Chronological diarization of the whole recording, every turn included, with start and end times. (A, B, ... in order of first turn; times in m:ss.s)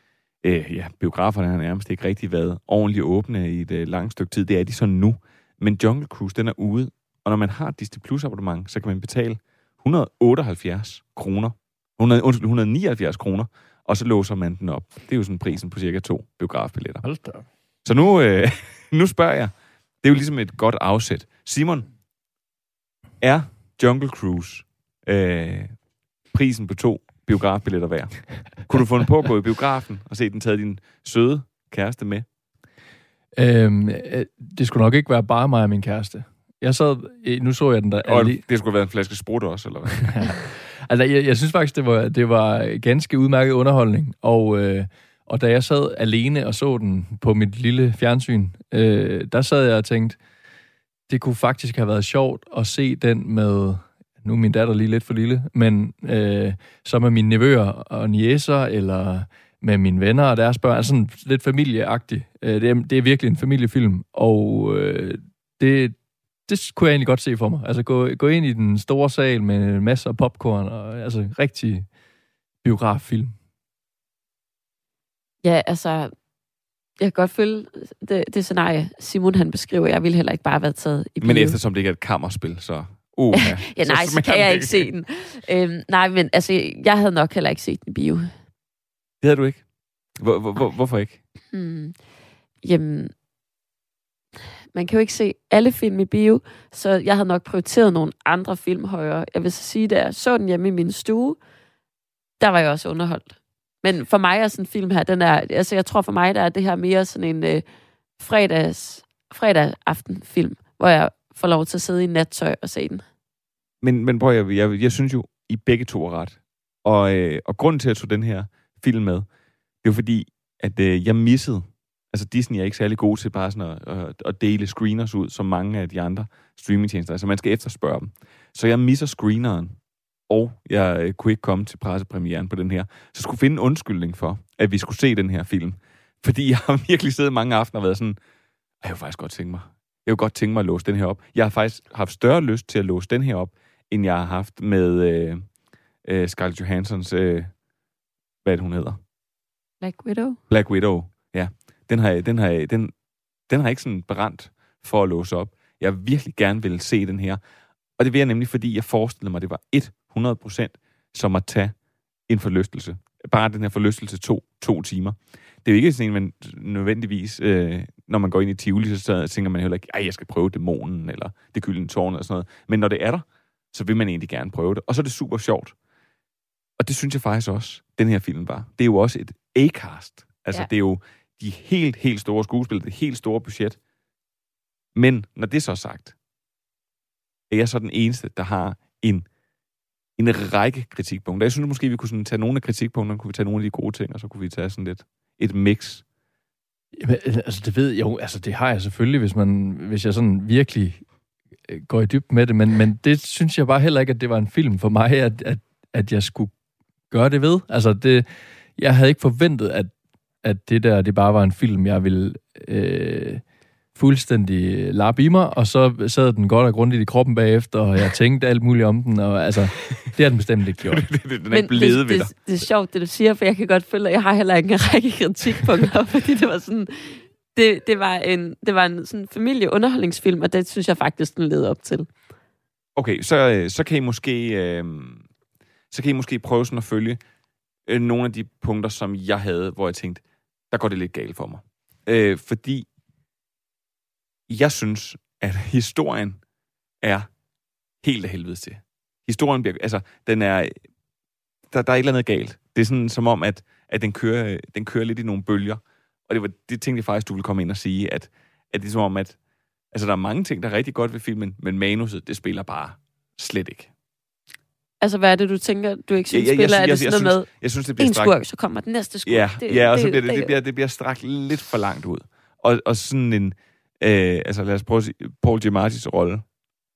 0:00.4-0:17.0 A
0:17.0-0:17.5 B
0:17.8-0:21.9 A
0:23.2-0:25.7 A
0:26.3-0:32.3 A
0:33.4-0:38.4 B
0:38.0-0:40.4 A
0:40.1-0:50.2 B
0:51.1-1:06.0 B
1:06.5-1:11.9 B
1:12.6-1:13.3 B
1:15.4-1:16.1 C
1:17.0-1:21.6 C
1:21.2-1:24.9 A
1:23.3-1:28.3 C
1:29.2-1:29.6 A
1:30.2-1:31.2 A
1:31.5-1:32.0 C
1:32.6-1:33.1 C
1:34.7-1:41.4 C
1:42.4-1:47.6 C
1:48.2-1:53.0 C
1:53.8-1:59.3 A
1:59.8-2:09.8 A
2:10.3-2:18.2 A
2:18.8-2:25.5 A
2:26.0-2:27.5 A
2:28.4-2:29.0 A
2:29.8-2:30.4 C
2:30.5-2:32.9 A
2:33.5-2:37.4 A
2:38.0-2:41.7 A
2:42.3-2:55.8 A
2:56.8-3:03.8 A
3:05.0-3:06.1 A
3:07.5-3:09.3 A
3:10.2-3:16.0 A
3:17.0-3:21.0 B
3:21.7-3:26.5 B
3:27.1-3:29.9 B
3:30.4-3:33.4 B
3:34.0-3:41.0 B
3:40.8-3:42.3 A
3:41.5-3:52.1 C
3:53.0-3:55.2 A
3:55.9-3:57.2 A
3:57.9-4:02.9 A
4:04.5-4:06.4 A
4:07.0-4:07.3 A
4:08.0-4:10.8 A
4:11.7-4:19.4 A
4:19.9-4:23.9 A
4:25.0-4:27.5 C
4:26.3-4:28.4 A
4:28.0-4:30.5 C
4:29.2-4:36.4 A